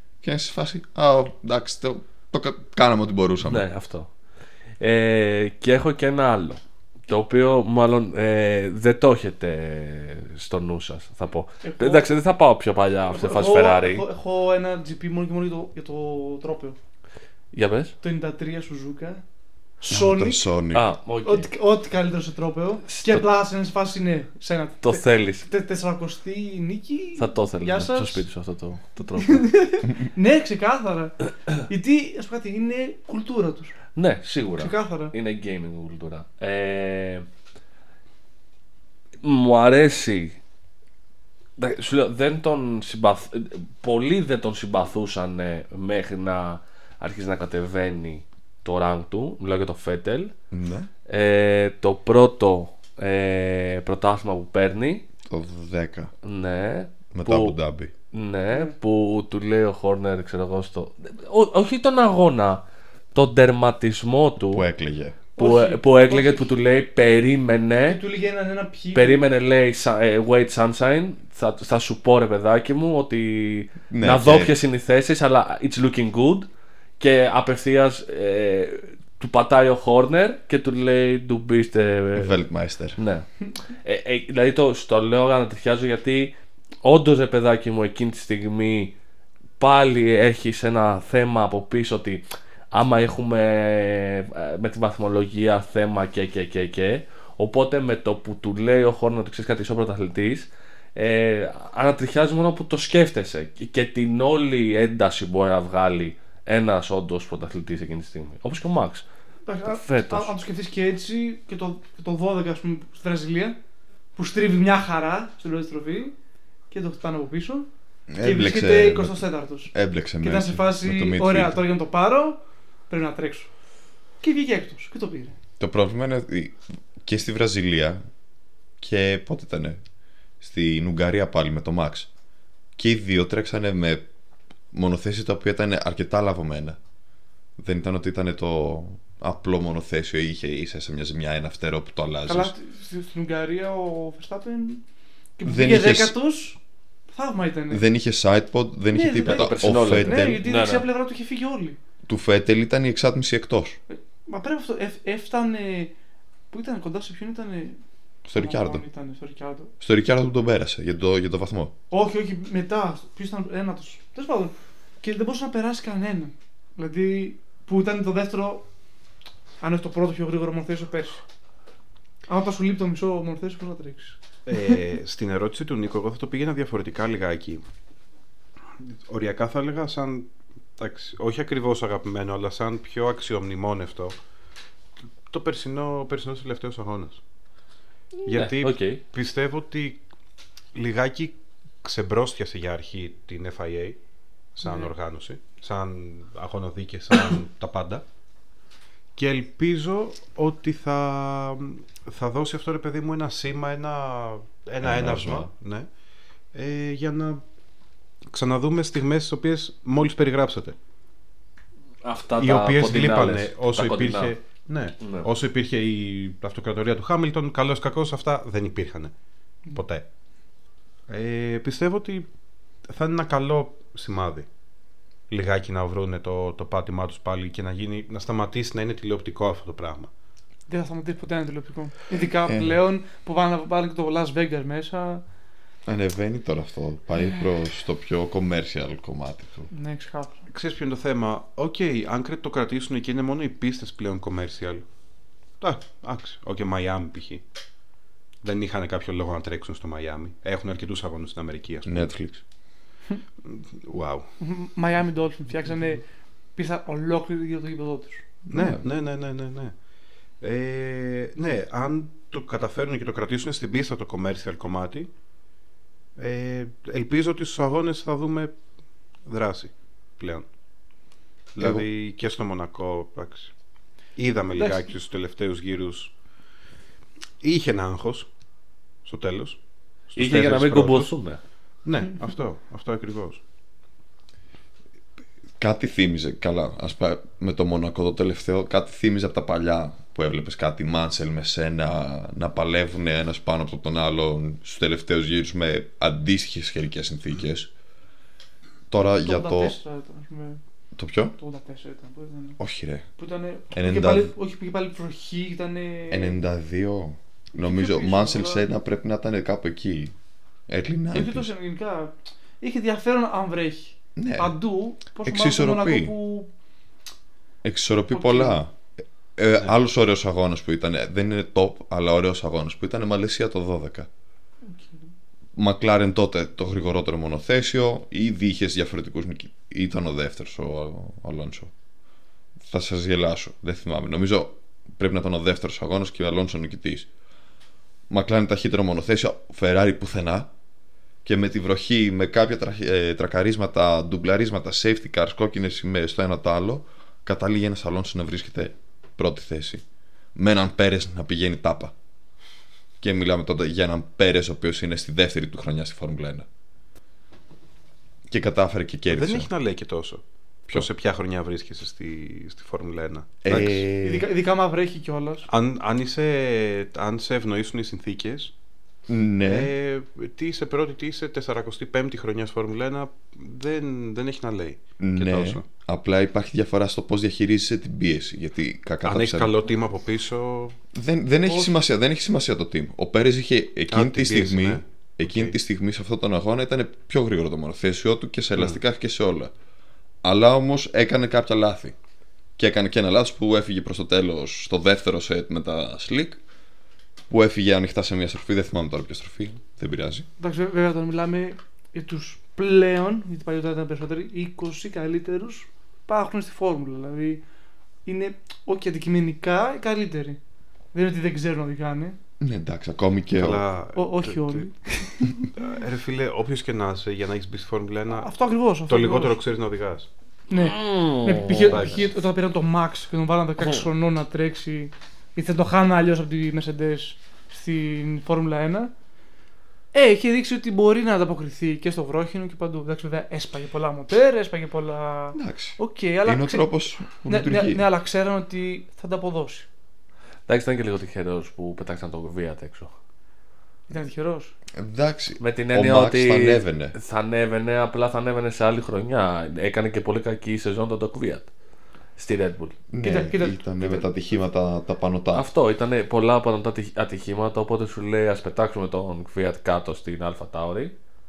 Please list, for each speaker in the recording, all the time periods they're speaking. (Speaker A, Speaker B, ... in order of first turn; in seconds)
Speaker A: 0.2-3.6, 19.9-20.9, 50.5-50.9, 55.3-56.1, 57.1-57.9, 64.5-65.2, 73.9-74.5, 82.2-83.0, 118.1-121.6, 125.6-128.0, 128.8-129.8, 130.4-132.1, 132.8-134.0, 134.7-136.8, 137.6-142.5, 145.4-146.2, 147.7-150.4, 152.1-153.8, 158.3-158.8, 159.8-161.7, 204.8-205.5, 232.5-232.8, 235.9-239.7, 251.8-252.4, 258.5-258.8, 271.6-271.9, 285.6-297.7, 298.9-299.8, 301.0-301.4, 302.6-303.1, 303.7-304.3, 306.1-310.1, 310.7-311.5, 314.2-314.5, 315.2-316.1, 317.6-318.7, 319.4-324.1, 325.6-331.7, 332.7-337.1, 338.1-340.5, 341.2-349.8, 350.4-351.9, 353.0-356.5, 358.3-359.5, 363.4-364.3, 369.1-369.7, 375.0-379.5, 380.9-389.5, 390.2-392.0, 392.6-396.4, 397.3-400.3, 412.4-413.6, 435.4-437.9, 444.7-446.9, 452.9-455.5
Speaker B: 3.5-4.1, 4.8-14.1, 17.5-17.9, 20.7-21.5, 22.9-23.2, 24.8-25.5, 27.2-29.4, 34.0-37.3, 39.2-40.4, 41.6-50.3, 51.1-55.0, 56.2-57.5, 58.1-62.6, 63.1-64.6, 65.4-68.0, 69.0-76.5, 77.0-82.4, 83.0-89.0, 89.6-109.0, 109.7-110.3, 149.2-150.9, 188.3-189.0, 212.0-214.3, 215.0-215.3, 280.2-281.4, 420.6-421.8, 440.5-442.9, 445.4-451.5, 452.2-452.8, 455.3-460.9
Speaker C: 11.6-12.1, 13.1-16.8, 18.0-19.2, 19.8-20.4, 21.2-28.2, 29.2-33.8, 34.6-35.1, 65.4-66.5, 67.9-69.2, 109.5-113.6, 114.2-116.1, 116.7-117.7, 118.2-123.5, 124.2-125.4, 142.3-144.8, 145.4-146.6, 147.1-147.8, 148.9-151.8, 153.9-155.9, 156.5-157.8, 158.3-159.7, 161.9-168.7, 169.6-171.2, 172.3-174.2, 194.7-194.9, 230.7-235.2, 239.7-240.4, 254.4-256.0, 256.6-258.2, 274.6-274.9, 299.2-300.6, 301.4-302.6, 303.2-306.4, 307.6-308.6, 311.1-316.5, 318.1-318.6, 363.6-365.5, 381.5-381.7, 400.4-407.4, 408.1-410.4, 410.9-412.2, 414.0-415.3, 418.1-419.4, 420.5-428.9, 429.9-436.6, 437.2-439.7, 443.9-444.5, 453.0-454.1
Speaker D: 174.5-177.6, 178.9-184.2, 185.3-187.2, 188.3-190.0, 190.7-194.0, 194.6-198.1, 199.2-205.9, 206.5-207.4, 208.3-210.8, 212.4-219.1, 219.7-220.1, 221.1-222.3, 222.9-224.5, 225.3-230.1, 240.5-244.8, 245.6-247.4, 248.4-252.1, 253.4-254.3, 258.5-259.7, 260.4-265.1, 266.2-268.5, 269.3-270.5, 271.6-273.5, 274.2-276.1, 277.4-278.3, 279.1-279.6, 280.1-281.1, 281.9-283.4, 359.1-363.9, 365.5-368.5, 369.4-375.6, 379.0-380.8, 383.9-385.6, 413.4-414.7, 415.5-418.3, 418.9-420.1, 421.6-422.1